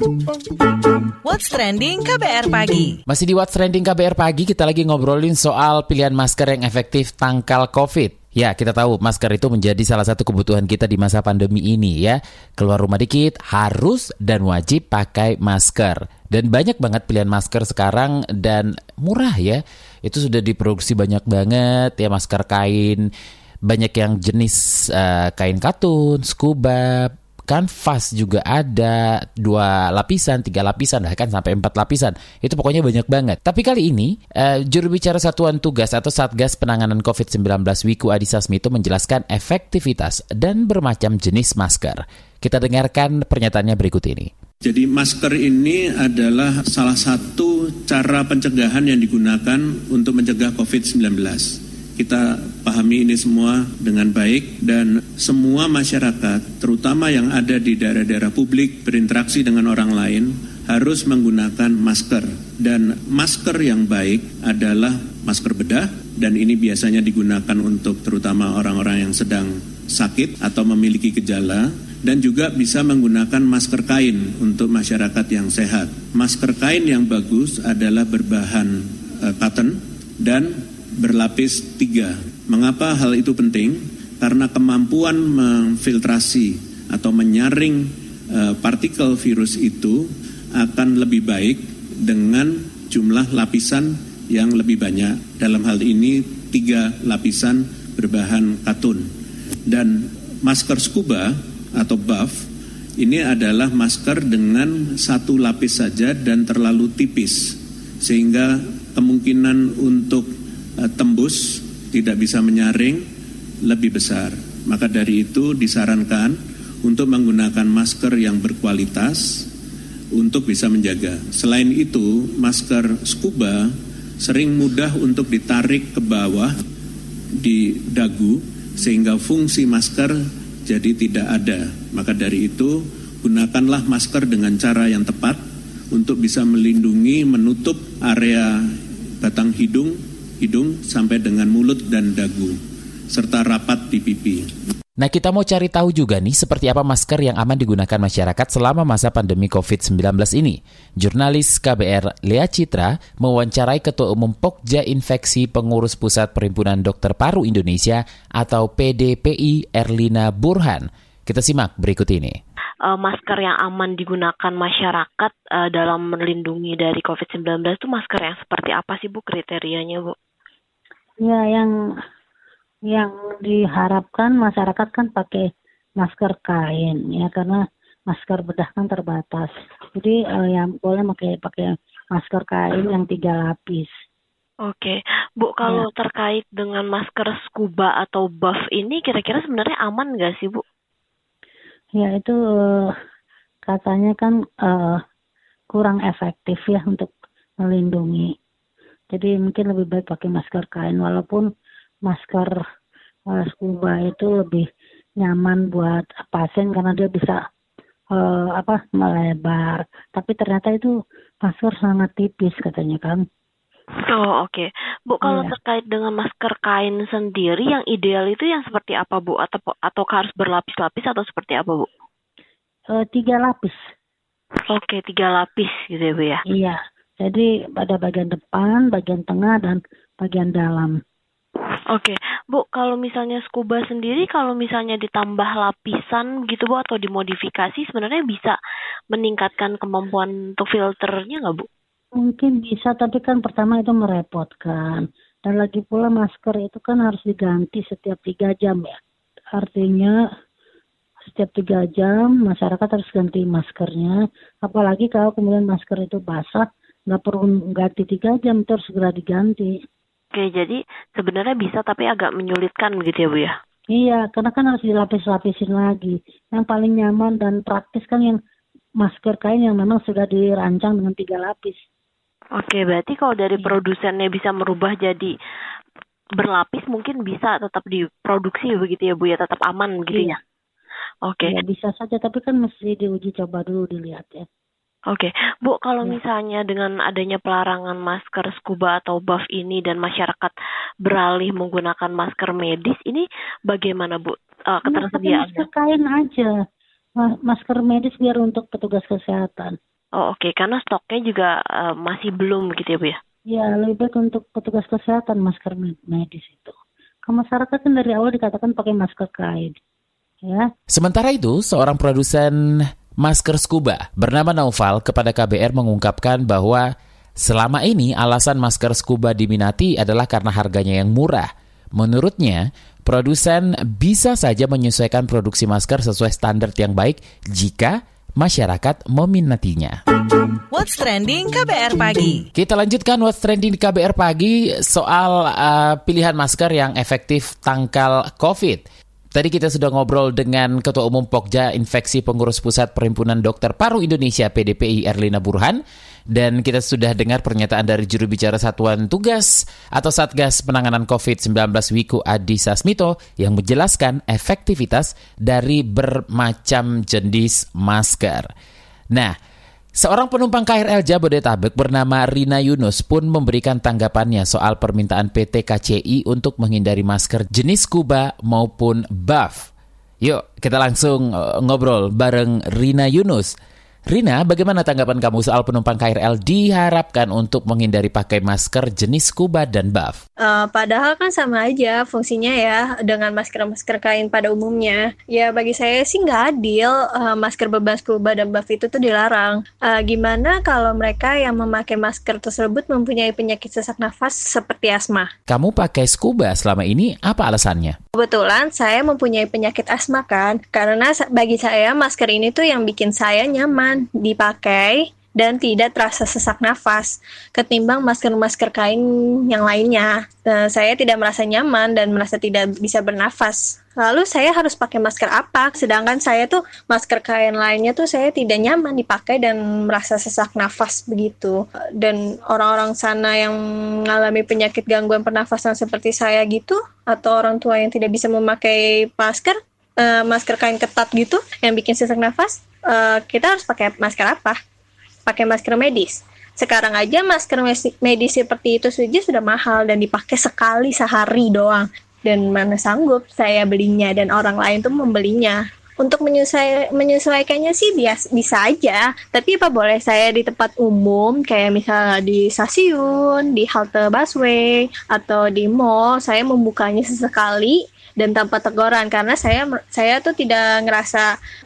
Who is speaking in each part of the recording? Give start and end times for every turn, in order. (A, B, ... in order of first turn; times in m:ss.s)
0:01.2-0:03.0 A
0:03.1-0:23.1 B
0:23.6-0:44.3 B
0:44.6-1:30.0 C
1:30.5-1:39.0 C
1:39.7-1:42.4 C
1:43.0-1:50.3 C
1:50.8-1:53.0 C
1:53.6-1:59.5 C
2:00.1-2:03.7 C
2:04.2-2:06.5 C
2:07.4-2:18.6 C
2:19.2-2:22.6 C
2:23.1-2:24.5 C
2:25.0-2:42.4 B
2:42.9-2:50.2 D
2:51.2-2:51.7 E
2:52.9-2:55.5 E
2:56.0-2:57.6 E
2:58.1-3:03.9 E
3:04.6-3:10.6 D
3:12.0-3:12.3 E
3:13.7-3:14.9 E
3:15.7-3:17.1 E
3:17.6-3:18.2 E
3:19.1-3:21.4 E
3:22.1-3:22.5 E
3:23.4-3:24.6 E
3:25.2-3:27.4 E
3:28.2-3:30.9 E
3:31.5-3:33.2 E
3:34.0-3:41.9 D
3:43.0-3:43.7 E
3:44.7-3:46.4 D
3:46.6-3:50.9 E
3:51.9-3:58.6 D
3:59.1-4:01.7 D
4:02.3-4:09.0 E
4:09.6-4:10.1 E
4:11.3-4:14.1 E
4:14.7-4:19.7 E
4:20.3-4:23.5 D
4:23.9-4:28.4 E
4:29.0-4:31.7 E
4:32.6-4:35.3 D
4:36.4-4:40.4 D
4:41.2-4:41.6 D
4:41.5-4:44.4 E
4:45.1-4:55.7 D
4:54.9-4:56.5 E
4:57.5-4:59.7 E
5:00.1-5:03.2 D
5:03.5-5:06.7 E
5:07.2-5:09.8 E
5:10.9-5:16.8 B
5:17.4-5:30.0 B
5:30.7-5:32.5 A
5:32.5-5:38.8 B
5:39.3-5:58.5 B
6:00.0-6:09.7 B
6:10.2-6:13.5 B
6:14.1-6:20.2 B
6:20.4-6:35.3 F
6:35.5-6:38.0 B
6:38.2-7:14.6 F
7:15.3-7:41.3 F